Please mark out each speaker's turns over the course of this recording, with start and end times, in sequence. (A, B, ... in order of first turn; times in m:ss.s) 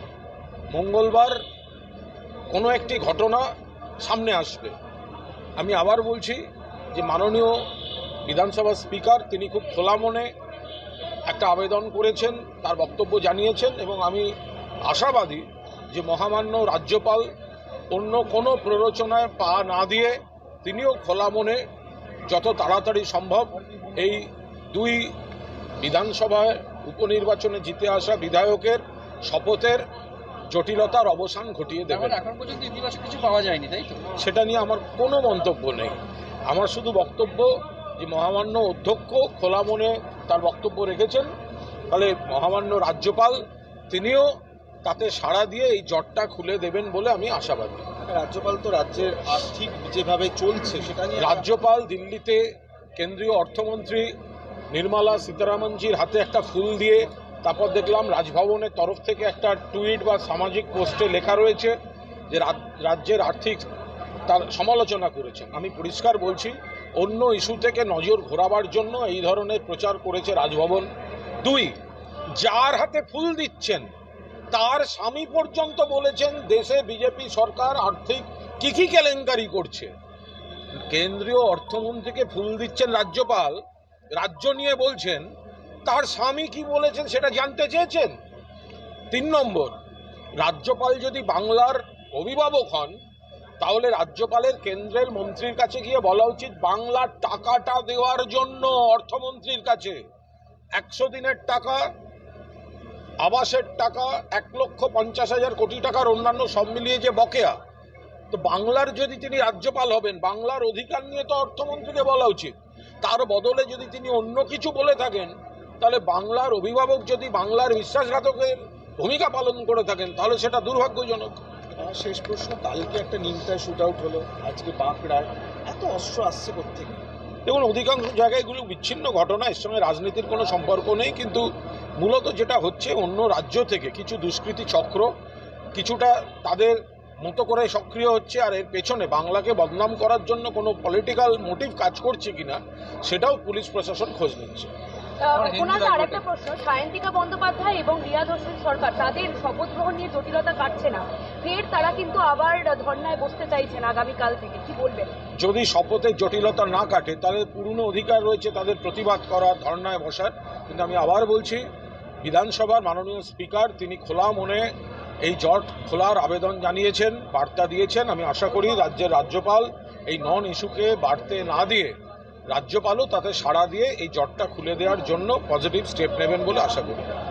0:00.7-0:01.4 A
0:02.5-0:03.5 A
0:04.0-0:04.8 A
0:05.6-0:06.4 A
0:06.9-0:07.5 A
0:08.2-0:10.3 A
0:11.3-0:14.3 A
0:14.8-0:17.3 A
0:17.9-0:21.6 A
0:22.3-0:25.1 A
0:25.8-0:29.8 A
0:30.5-0:32.2 A
0:31.9-0:34.1 B
0:34.2-0:36.0 A
0:36.5-0:41.3 A
0:41.9-0:44.3 A
0:44.8-0:47.9 A
0:48.1-0:51.5 C
0:51.2-0:52.4 A
0:53.0-0:54.1 A
0:54.7-1:01.7 A
1:02.3-1:03.7 A
1:04.3-1:10.9 A
1:11.4-1:11.8 A
1:12.4-1:13.9 A
1:14.5-1:19.9 A
1:20.7-1:23.6 A
1:24.2-1:25.3 A
1:25.8-1:28.1 A
1:29.1-1:29.7 A
1:30.4-1:33.0 A
1:33.6-1:40.0 A
1:40.8-1:41.8 A
1:43.2-1:47.6 A
1:48.3-2:01.4 A
2:01.8-2:07.0 C
2:07.5-2:11.4 A
2:12.0-2:15.1 A
2:15.8-2:24.7 A
2:25.2-2:35.1 D
2:25.4-2:26.2 B
2:35.4-2:41.6 A
2:42.2-2:44.7 A
2:45.2-2:51.9 A
2:52.5-2:57.1 A